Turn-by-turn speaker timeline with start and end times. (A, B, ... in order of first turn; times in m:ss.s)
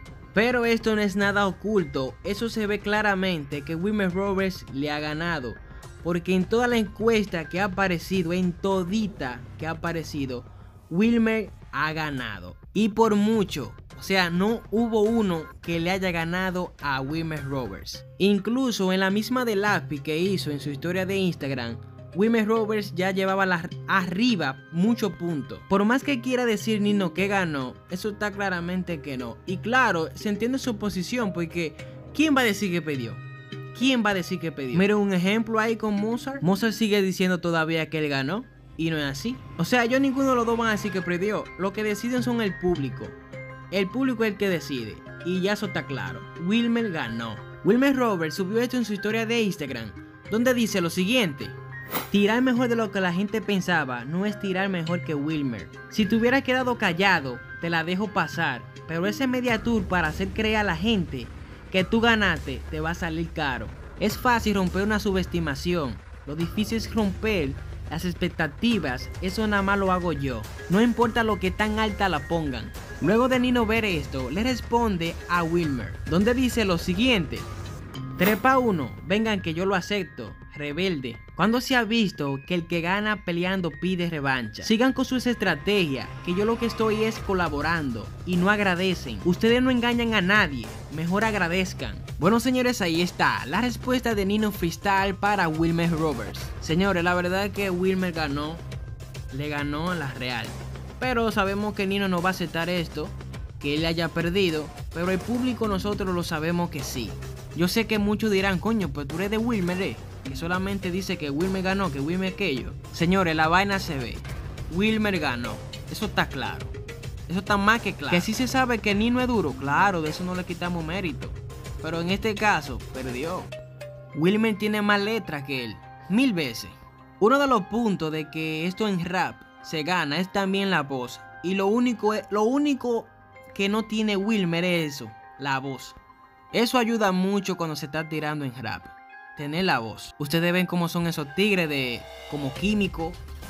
0:00.3-0:33.2 A
0:33.7-0:43.2 A
0:43.7-0:51.6 A
0:52.1-1:17.5 A
1:18.2-1:38.6 A
1:39.3-1:56.7 A
1:57.3-2:03.5 A
2:04.1-2:16.0 A
2:16.5-2:23.2 A